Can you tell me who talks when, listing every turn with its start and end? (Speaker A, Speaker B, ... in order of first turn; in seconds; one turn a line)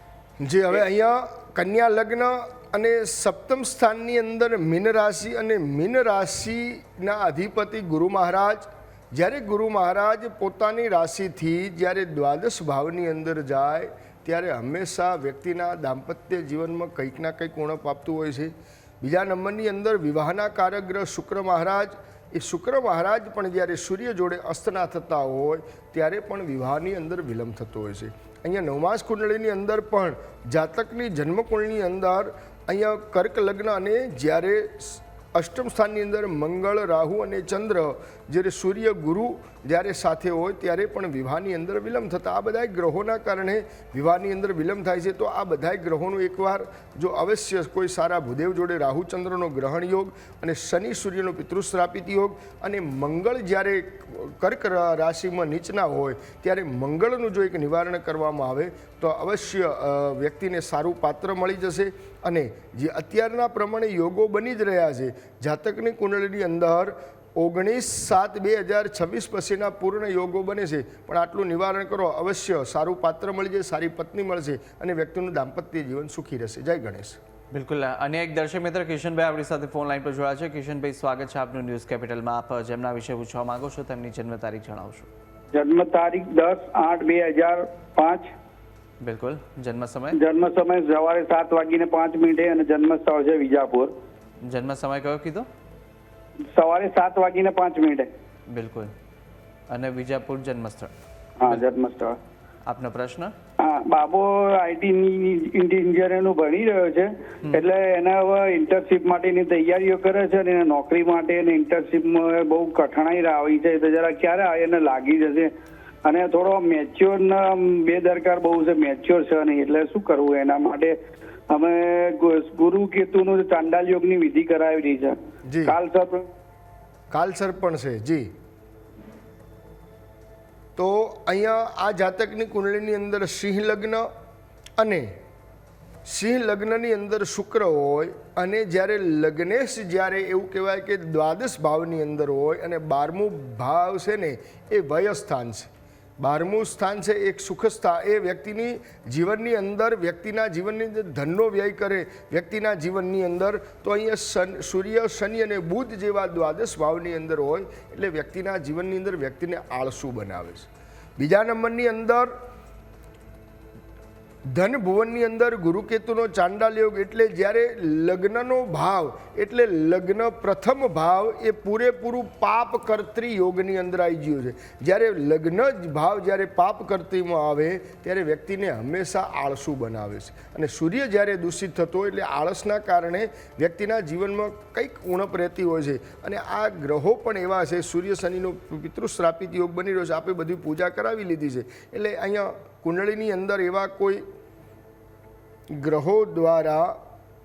Speaker A: 0.4-77.2
Speaker B: 77.5-85.1
Speaker C: 85.5-88.3
Speaker B: 89.0-90.2
Speaker C: 90.2-93.9
Speaker B: 94.5-95.5
Speaker C: 96.5-98.1
Speaker B: 98.5-98.9
Speaker B: 99.7-100.9
Speaker C: 101.4-102.2
Speaker B: 102.7-103.3
Speaker C: 103.6-115.5
Speaker C: 116.1-121.0
Speaker C: 121.5-126.3
Speaker A: 125.5-125.8
Speaker A: 127.1-128.3
Speaker A: 130.8-134.1
Speaker A: 134.8-135.1
Speaker A: 136.1-162.3
Speaker A: 164.5-194.2
Speaker A: 195.7-197.0